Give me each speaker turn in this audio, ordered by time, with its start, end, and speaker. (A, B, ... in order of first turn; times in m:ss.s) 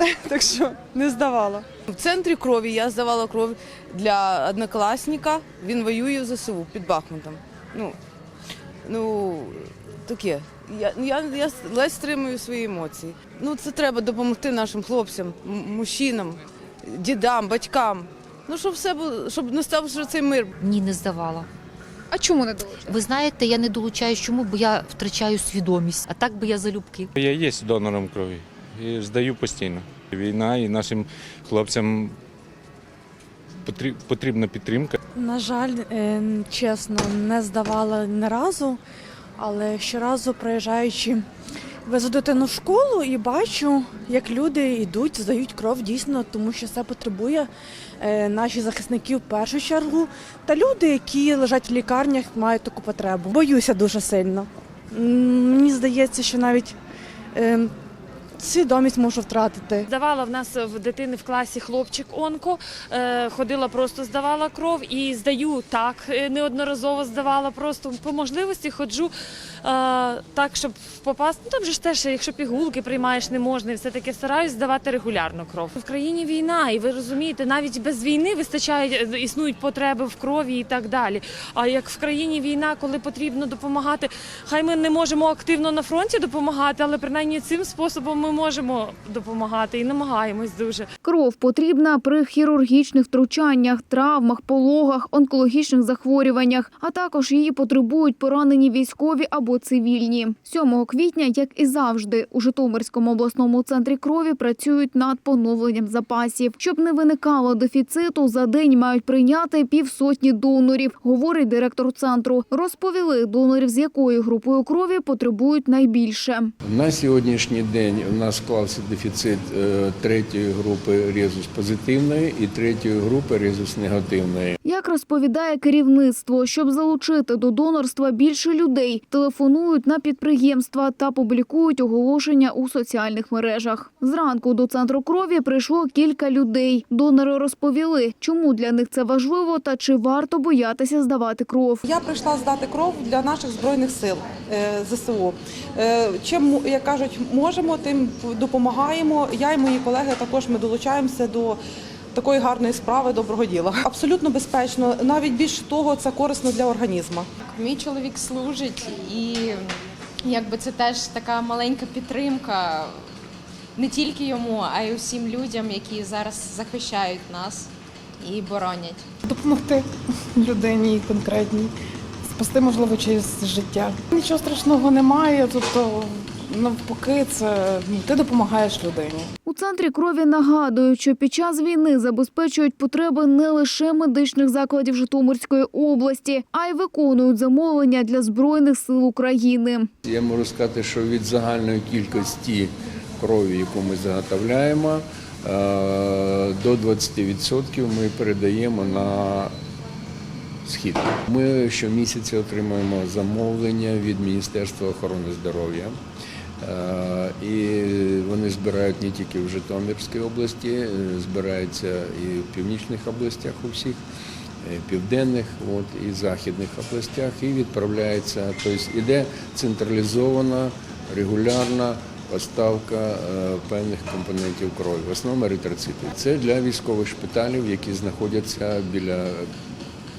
0:00.9-0:01.6 A
0:01.9-0:08.0 B
0:08.8-0:20.5 B
0:20.6-0:21.5 C
0:22.2-0:27.1 C
0:27.1-0:32.2 D
0:33.6-0:35.0 D
0:35.1-0:38.8 A
0:39.4-0:41.2 A
0:41.8-0:56.8 A
0:57.3-0:57.7 A
0:58.4-0:59.9 A
0:59.9-1:09.1 E
1:09.6-1:30.9 E
1:31.0-1:56.5 F
1:56.6-2:04.6 G
2:04.6-2:21.8 F
2:21.8-2:31.6 H
2:32.1-2:37.3 H
2:37.4-2:39.7 I
2:40.2-2:42.9 I
2:43.8-2:47.7 I
2:48.2-2:49.0 I
2:49.2-2:51.7 J
2:52.2-2:59.3 J
2:59.4-3:09.9 F
3:10.0-3:19.5 G
3:20.6-3:26.0 G
3:26.6-3:34.0 G
3:34.6-3:49.5 G